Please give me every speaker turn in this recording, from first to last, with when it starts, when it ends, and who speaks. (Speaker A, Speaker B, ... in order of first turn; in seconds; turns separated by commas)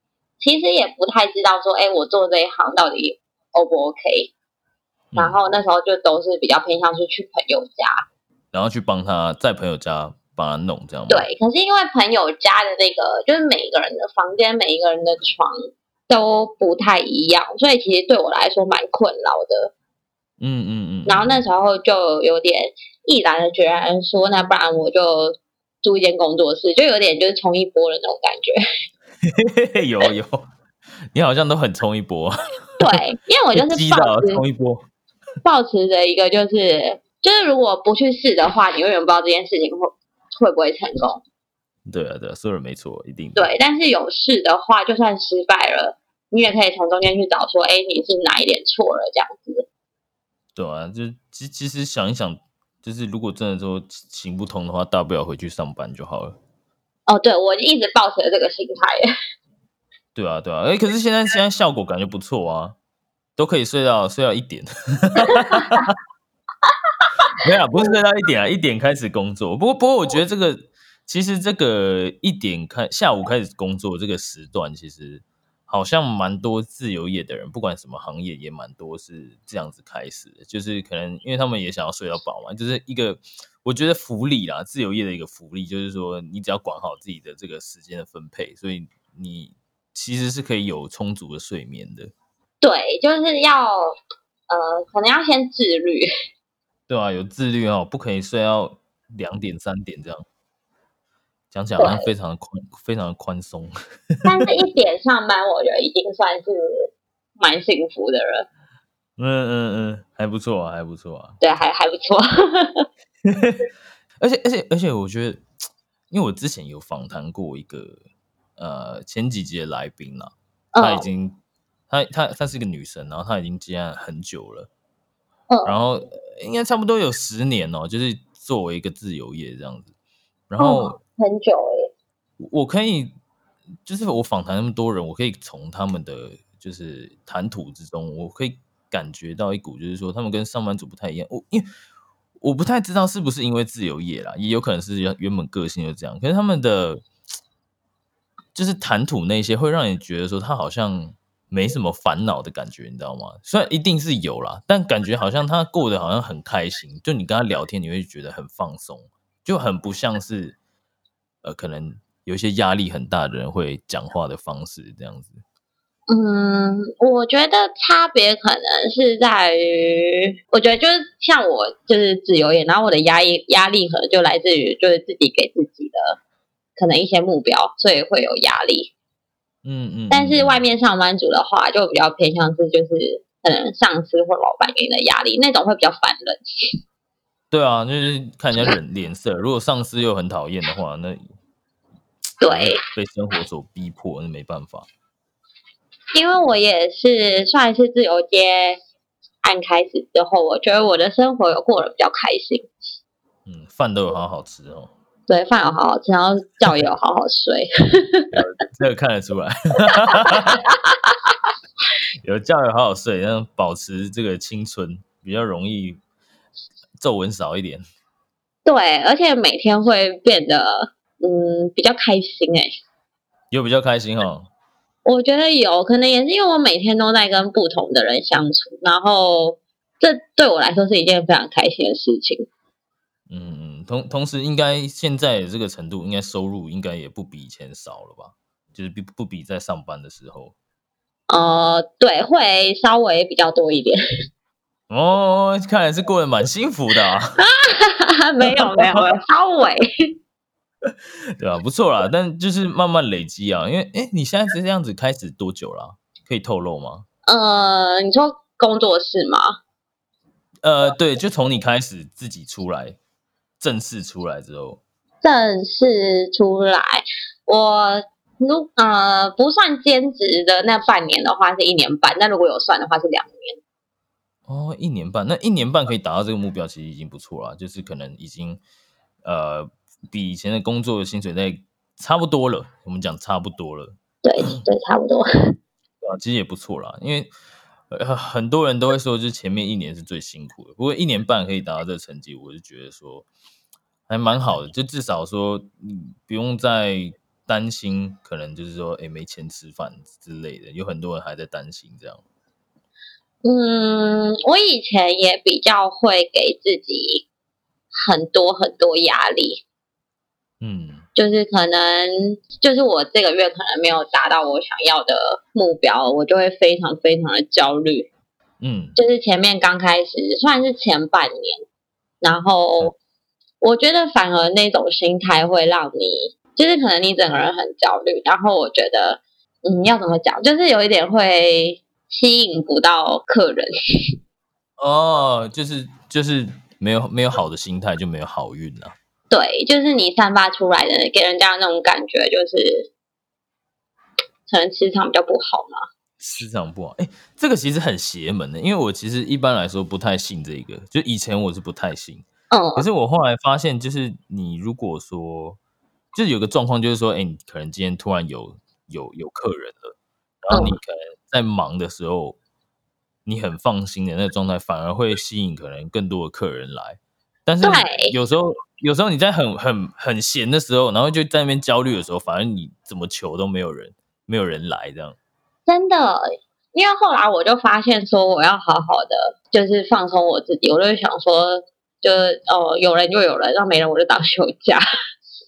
Speaker A: 0.4-4.3, Speaker B: 5.1-5.4, Speaker A: 5.2-8.0, Speaker B: 8.5-11.3, Speaker A: 11.1-15.6, Speaker A: 16.1-19.7, Speaker B: 20.4-21.4, Speaker A: 21.1-28.6, Speaker B: 29.2-30.5, Speaker B: 31.1-32.9, Speaker A: 32.8-34.4, Speaker B: 33.5-34.9, Speaker A: 35.4-41.2, Speaker B: 41.9-43.5, Speaker A: 43.4-49.7, Speaker B: 50.5-56.4, Speaker A: 57.1-59.1, Speaker B: 60.1-62.8, Speaker B: 63.4-65.9, Speaker A: 65.3-65.9, Speaker A: 67.0-67.8, Speaker B: 67.4-92.1, Speaker A: 92.6-94.0, Speaker A: 94.5-96.1, Speaker B: 96.9-100.3, Speaker B: 101.5-104.3, Speaker A: 101.8-102.1, Speaker A: 104.2-108.5, Speaker B: 109.2-111.4, Speaker A: 111.4-112.9, Speaker B: 113.2-113.7, Speaker B: 114.2-115.4, Speaker B: 116.1-118.0, Speaker B: 118.6-124.7, Speaker A: 120.7-121.1, Speaker A: 125.5-125.8, Speaker B: 125.7-129.9, Speaker B: 130.5-131.0, Speaker A: 130.6-131.9, Speaker B: 132.4-133.1, Speaker B: 133.8-141.7, Speaker B: 142.4-147.1, Speaker B: 148.6-160.6, Speaker B: 161.4-165.4, Speaker A: 166.1-176.2, Speaker A: 176.8-178.9, Speaker B: 179.6-180.6, Speaker A: 180.1-186.4, Speaker B: 187.5-191.2, Speaker A: 192.4-192.8, Speaker B: 192.4-194.9, Speaker A: 196.2-198.8, Speaker A: 199.4-202.7, Speaker B: 203.5-204.9, Speaker A: 205.3-208.3, Speaker B: 208.3-210.6, Speaker A: 209.9-211.3, Speaker B: 212.2-216.0, Speaker B: 217.0-217.8, Speaker A: 218.7-222.8, Speaker B: 223.5-224.5, Speaker A: 225.1-232.5, Speaker B: 233.3-240.6, Speaker A: 241.3-244.0, Speaker B: 244.9-247.4, Speaker A: 247.4-249.9, Speaker B: 248.6-249.0, Speaker B: 250.9-257.1, Speaker A: 257.3-259.6, Speaker B: 260.6-263.0, Speaker B: 263.6-264.8, Speaker A: 265.2-273.6, Speaker B: 274.5-278.6, Speaker B: 279.2-284.6, Speaker A: 284.2-285.3, Speaker B: 286.0-287.3, Speaker B: 287.9-293.3, Speaker B: 294.1-302.2, Speaker A: 303.4-307.2, Speaker A: 307.9-309.6, Speaker B: 310.6-311.1, Speaker A: 311.2-318.1, Speaker B: 318.6-319.0, Speaker A: 319.0-321.6, Speaker A: 322.2-322.9, Speaker A: 323.6-333.7, Speaker B: 334.8-338.9, Speaker A: 339.3-342.9, Speaker A: 344.5-345.9, Speaker B: 346.2-355.6, Speaker A: 352.5-352.9, Speaker B: 356.1-362.4, Speaker A: 360.5-360.8, Speaker B: 363.3-375.2, Speaker A: 367.6-368.1, Speaker A: 375.7-384.8